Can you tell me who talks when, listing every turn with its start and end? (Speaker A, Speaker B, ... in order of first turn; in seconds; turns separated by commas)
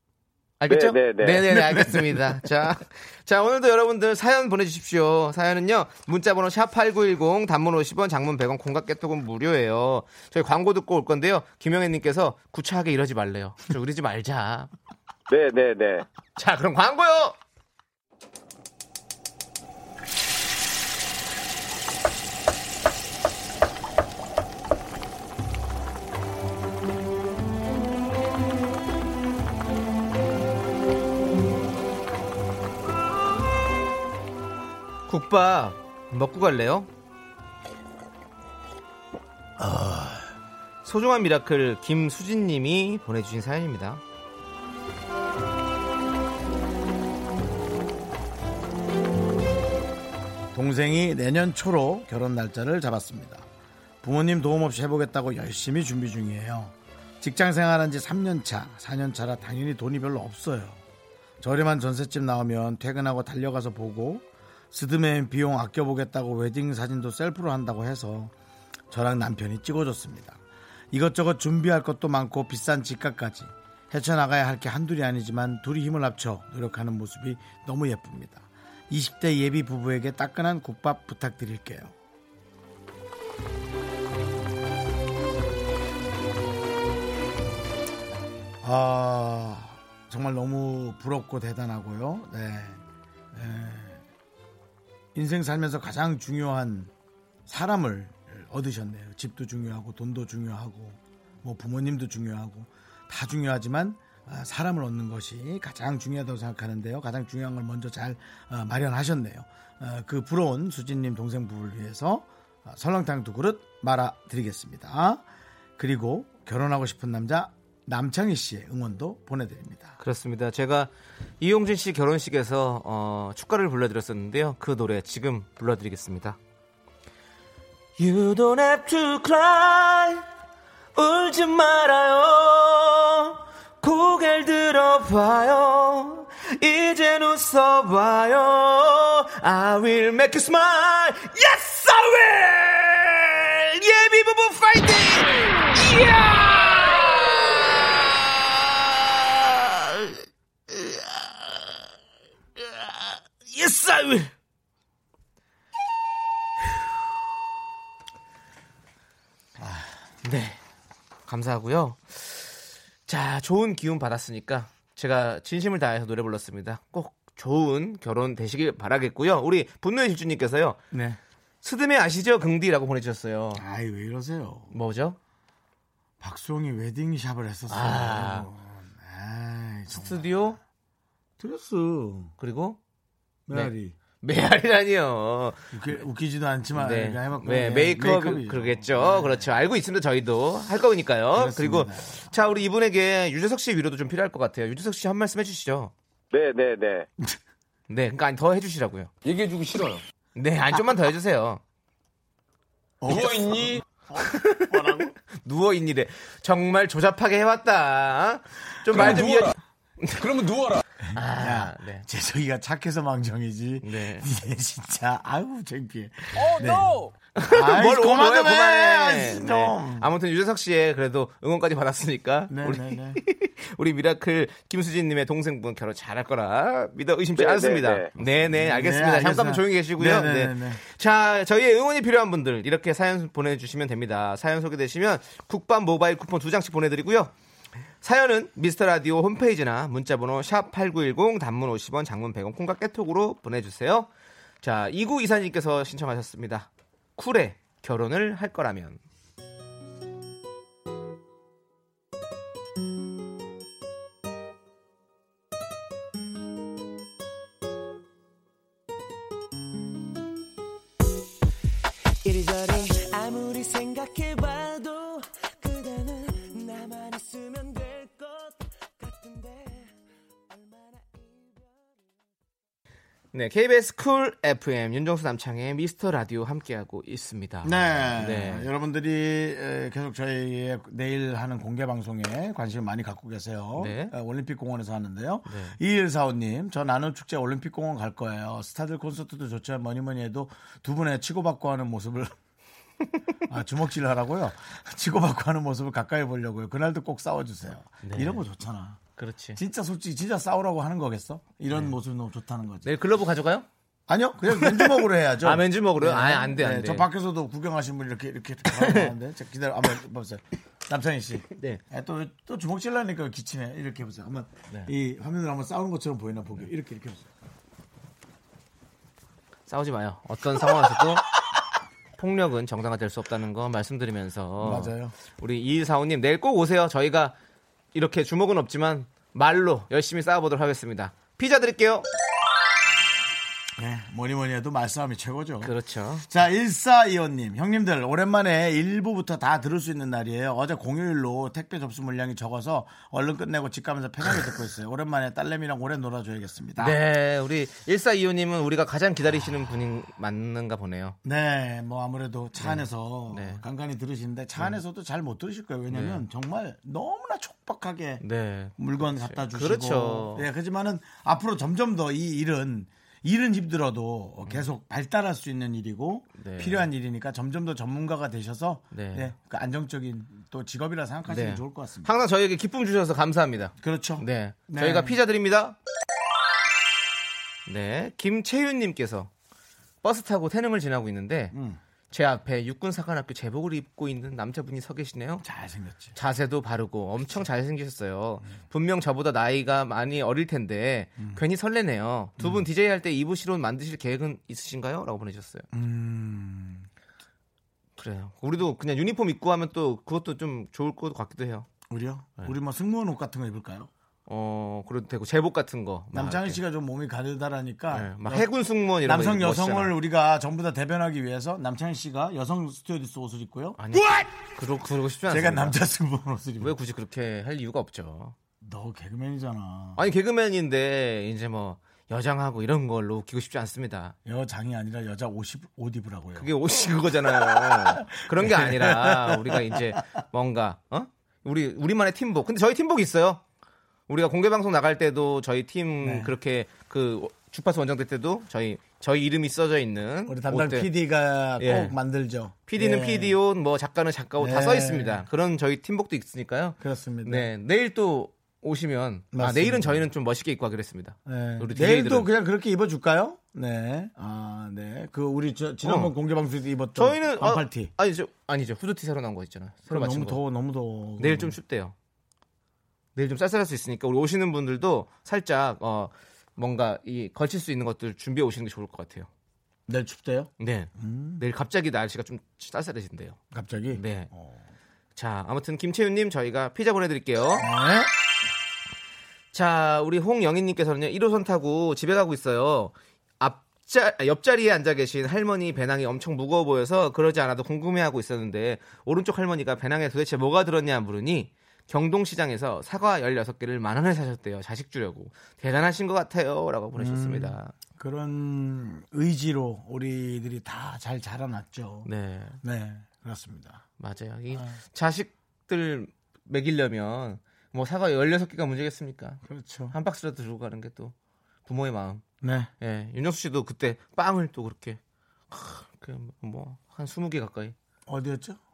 Speaker A: 0.6-14.7, Speaker B: 0.7-1.4, Speaker C: 1.4-2.4, Speaker B: 15.3-16.0, Speaker A: 16.4-17.4, Speaker A: 35.1-36.9, Speaker C: 39.6-40.2, Speaker A: 40.8-44.0, Speaker C: 50.5-53.5, Speaker C: 54.0-60.8, Speaker C: 61.4-68.3, Speaker C: 68.9-70.4, Speaker C: 70.9-81.9, Speaker C: 88.6-94.0, Speaker C: 95.1-96.9, Speaker C: 97.5-115.2, Speaker C: 115.8-120.0, Speaker A: 120.0-126.4, Speaker A: 128.0-130.2, Speaker A: 130.9-147.8, Speaker A: 153.4-154.3, Speaker C: 159.6-160.0, Speaker A: 160.2-160.6, Speaker A: 161.3-170.8, Speaker C: 170.9-171.2, Speaker A: 171.6-173.6, Speaker C: 173.5-174.7, Speaker A: 174.7-175.2, Speaker C: 176.2-180.6, Speaker A: 177.7-178.5, Speaker A: 179.9-180.6, Speaker C: 181.4-182.3, Speaker A: 182.4-182.8, Speaker C: 183.5-183.9, Speaker A: 183.5-185.7, Speaker C: 185.7-189.5, Speaker A: 186.7-195.9, Speaker C: 191.3-192.3, Speaker B: 196.3-197.1, Speaker A: 197.9-199.1, Speaker D: 199.2-200.0, Speaker A: 200.3-201.6, Speaker C: 203.0-205.1, Speaker D: 203.1-203.8, Speaker A: 204.2-210.2, Speaker C: 208.9-209.3, Speaker D: 208.9-209.6, Speaker D: 210.2-210.8, Speaker A: 211.1-212.0, Speaker C: 211.1-220.1, Speaker A: 213.8-214.3, Speaker D: 216.4-217.1, Speaker A: 217.4-237.3, Speaker C: 222.5-223.2, Speaker B: 227.4-228.1, Speaker C: 228.5-230.8, Speaker A: 238.0-244.1, Speaker A: 244.6-249.0, Speaker E: 262.2-269.9, Speaker E: 270.5-272.0, Speaker A: 273.3-278.7, Speaker C: 277.6-292.3, Speaker A: 283.8-284.1, Speaker A: 285.5-285.8, Speaker C: 293.5-299.0, Speaker A: 298.0-298.4, Speaker A: 299.2-299.6, Speaker C: 299.5-302.9, Speaker A: 302.8-303.6, Speaker C: 304.1-317.3, Speaker A: 304.6-307.1, Speaker A: 308.7-309.1, Speaker A: 319.7-321.3, Speaker A: 322.2-327.3, Speaker C: 324.6-325.1, Speaker A: 327.9-332.1, Speaker C: 333.8-335.7, Speaker A: 335.6-336.3, Speaker C: 336.2-347.0, Speaker A: 346.8-351.2, Speaker C: 351.2-358.2, Speaker A: 352.6-353.6, Speaker A: 355.9-356.2, Speaker A: 358.2-360.4, Speaker C: 358.8-372.1, Speaker A: 366.4-366.9, Speaker A: 368.9-369.3, Speaker A: 371.3-375.8, Speaker C: 373.8-375.2, Speaker A: 377.6-379.3, Speaker A: 380.0-381.5, Speaker C: 381.5-381.8, Speaker A: 382.1-385.4, Speaker C: 385.4-386.1, Speaker A: 386.1-395.7, Speaker C: 392.4-392.6, Speaker C: 395.7-396.9, Speaker A: 398.0-401.7, Speaker C: 401.9-403.9, Speaker A: 404.3-406.6, Speaker C: 406.1-414.3, Speaker A: 407.9-409.9, Speaker A: 413.8-415.8, Speaker C: 415.3-416.8, Speaker A: 416.6-418.3, Speaker C: 418.6-420.0, Speaker A: 419.9-424.1, Speaker C: 424.2-426.5, Speaker A: 426.4-433.4, Speaker C: 427.2-430.0, Speaker A: 434.1-440.9, Speaker C: 436.0-436.4, Speaker C: 440.3-443.4, Speaker A: 441.6-441.9, Speaker A: 442.6-452.3, Speaker C: 444.4-445.2, Speaker C: 446.8-447.5, Speaker C: 449.3-450.1, Speaker C: 451.2-457.9, Speaker A: 455.8-456.1, Speaker A: 456.9-460.4, Speaker C: 459.9-461.6, Speaker A: 461.2-461.9, Speaker A: 463.1-469.3, Speaker C: 469.9-471.4, Speaker A: 470.6-473.4, Speaker C: 473.5-474.6, Speaker A: 473.9-474.3, Speaker A: 475.1-477.6, Speaker C: 477.6-478.1, Speaker A: 479.5-497.7, Speaker C: 497.0-502.1, Speaker A: 502.0-502.6, Speaker C: 502.6-503.8, Speaker A: 504.0-511.1, Speaker C: 504.5-504.8, Speaker C: 509.4-509.9, Speaker A: 511.6-512.2, Speaker C: 512.4-512.7, Speaker A: 512.8-517.7, Speaker C: 518.1-518.6